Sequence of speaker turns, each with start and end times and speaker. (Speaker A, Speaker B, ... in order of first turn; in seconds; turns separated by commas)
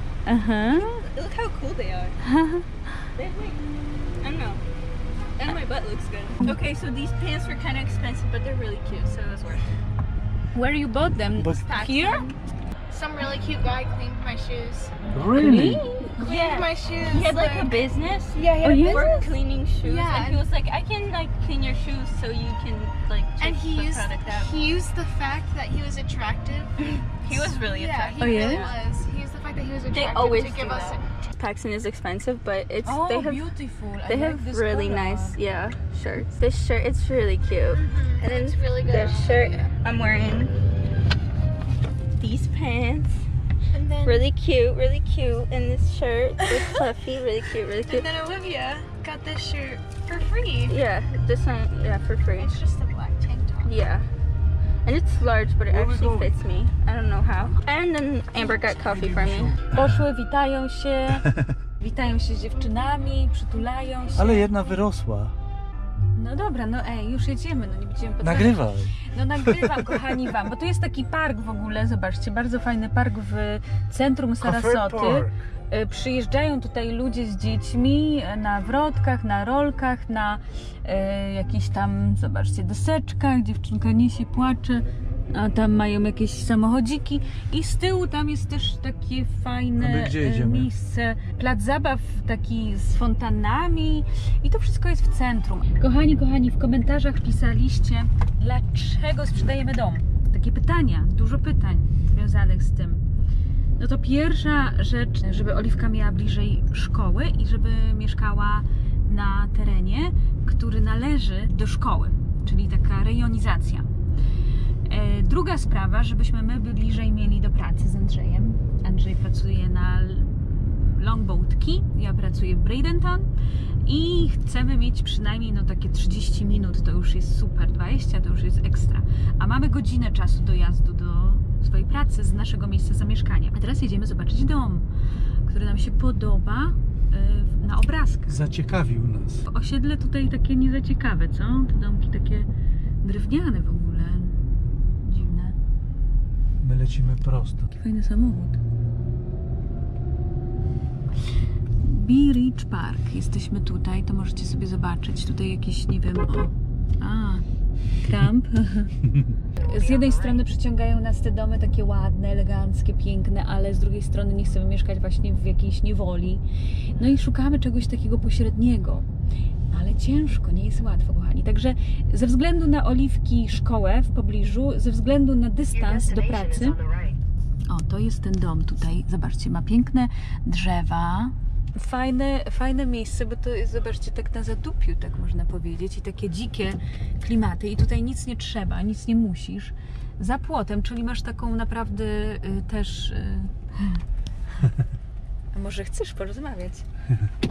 Speaker A: 0.2-1.0, Speaker B: 0.7-2.2, Speaker A: 2.2-2.7, Speaker B: 3.1-3.6, Speaker B: 4.2-4.6, Speaker B: 5.4-9.7, Speaker A: 10.5-12.2, Speaker C: 11.4-11.6, Speaker B: 11.5-12.3, Speaker D: 12.9-14.9, Speaker C: 15.1-15.8, Speaker A: 15.3-16.3, Speaker D: 16.2-17.8, Speaker B: 16.2-24.6, Speaker D: 18.3-19.3, Speaker A: 18.6-19.3, Speaker D: 19.8-20.4, Speaker D: 23.4-26.7, Speaker B: 26.8-28.8, Speaker D: 27.5-31.1, Speaker A: 28.2-28.7, Speaker B: 29.9-33.5, Speaker A: 32.8-35.4, Speaker B: 34.0-40.5, Speaker D: 37.7-39.7, Speaker B: 42.2-43.2, Speaker D: 43.7-44.2, Speaker B: 44.0-48.1, Speaker D: 47.8-50.8, Speaker B: 50.6-52.5, Speaker D: 52.4-53.7, Speaker B: 53.6-54.1, Speaker B: 54.8-59.6, Speaker C: 55.7-56.4, Speaker C: 58.8-59.9, Speaker A: 59.7-61.2, Speaker A: 61.8-64.5, Speaker C: 64.1-65.3, Speaker A: 66.1-103.0, Speaker C: 68.2-69.8, Speaker C: 74.4-75.3, Speaker C: 89.8-90.7, Speaker A: 103.8-113.9, Speaker A: 114.8-123.3, Speaker A: 123.8-134.9, Speaker A: 135.4-138.4, Speaker C: 138.3-139.4, Speaker A: 139.5-142.5, Speaker A: 143.0-144.3, Speaker A: 145.0-145.5, Speaker C: 146.6-147.7, Speaker A: 147.7-148.6, Speaker A: 151.8-157.4, Speaker A: 158.0-159.0, Speaker A: 159.6-169.1, Speaker A: 169.7-176.8, Speaker A: 177.7-194.0, Speaker A: 195.5-196.8